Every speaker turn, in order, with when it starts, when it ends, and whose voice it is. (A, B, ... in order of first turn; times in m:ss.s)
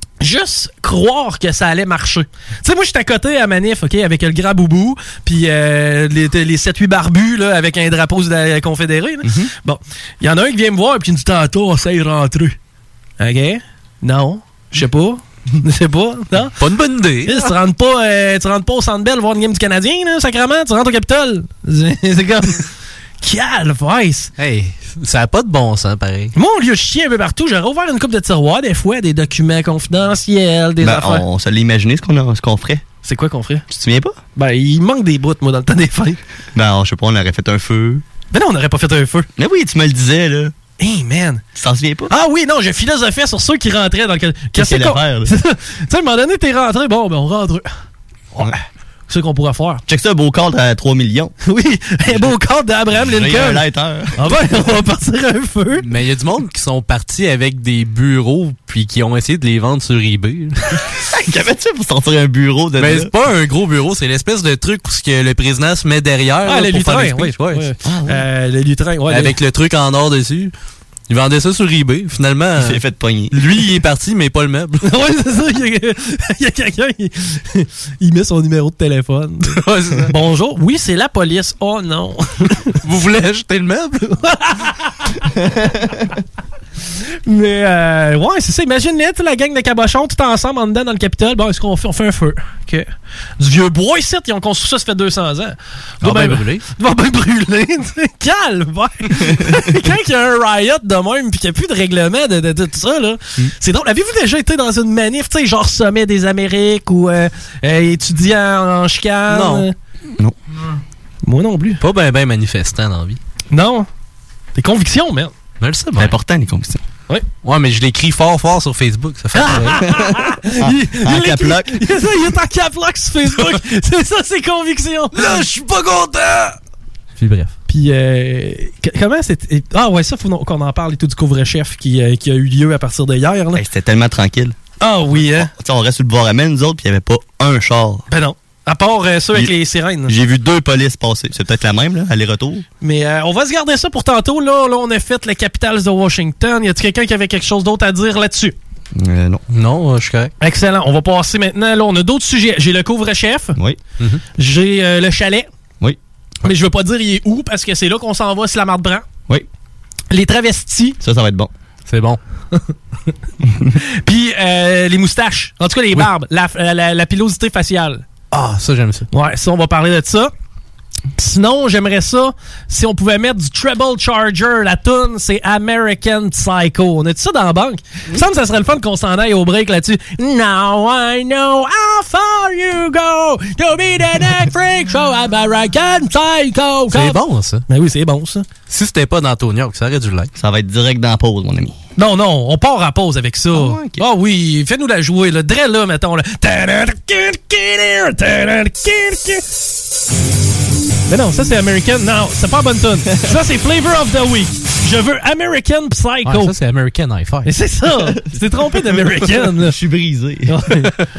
0:00.2-0:12.6 A
0:09.2-0:09.5 B
0:13.2-0:16.6 A
0:16.6-0:17.5 C
0:17.2-0:22.6 A
0:23.2-0:24.3 A
0:24.4-0:26.3 C
0:26.3-0:31.2 A
0:30.8-0:32.8 B
0:33.0-0:33.6 A
0:33.7-0:34.2 B
0:34.4-0:36.2 A
0:36.6-0:38.0 B
0:38.3-0:39.3 A
0:39.4-0:40.5 B
0:40.8-0:41.4 A
0:41.6-0:42.1 B
0:42.1-0:47.7 A
0:44.6-0:45.3 B
0:49.1-0:49.8 A
0:49.9-0:51.3 B
0:51.5-0:53.7 A
0:52.1-0:52.3 B
0:52.9-0:54.4 B
0:54.2-0:55.9 A
0:55.8-1:00.6 C
1:01.1-1:03.1 B
1:02.8-1:07.7 C
1:06.4-1:09.4 A
1:07.8-1:08.2 B
1:09.1-1:10.5 C
1:11.1-1:14.9 C
1:12.6-1:13.4 B
1:14.8-1:22.7 A
1:19.5-1:20.1 C
1:22.8-1:24.1 C
1:24.2-1:25.1 A
1:27.3-1:49.7 A
1:36.0-1:36.6 C
1:49.3-1:49.7 C
1:51.2-1:51.8 A
1:51.8-1:53.2 C
1:53.5-1:53.9 A
1:54.6-1:55.3 A
1:55.6-1:56.2 C
1:56.0-1:56.8 B
1:57.4-1:59.8 C
1:59.3-2:05.5 A
1:59.9-2:01.9 B
2:05.2-2:06.6 C
2:07.2-2:07.5 C
2:07.7-2:13.6 A
2:13.5-2:14.6 B
2:14.8-2:15.5 A
2:15.2-2:18.0 B
2:18.1-2:20.1 A
2:20.1-2:22.6 B
2:22.8-2:28.6 A
2:29.0-2:29.4 B
2:29.5-2:30.3 C
2:30.4-2:33.6 A
2:34.4-2:35.5 A
2:36.4-2:39.0 A
2:40.1-2:41.0 A
2:41.0-2:41.5 B
2:41.9-2:42.2 C
2:44.0-2:48.0 A
2:48.3-2:49.1 C
2:49.1-2:50.3 A
2:51.2-3:08.5 A
3:06.9-3:07.6 C
3:08.7-3:10.3 C
3:10.4-3:11.8 B
3:12.0-3:19.4 A
3:13.5-3:14.0 B
3:21.1-3:26.5 A
3:26.2-3:27.5 C
3:27.4-3:29.8 A
3:28.0-3:28.4 B
3:29.4-3:30.6 B
3:30.5-3:30.9 A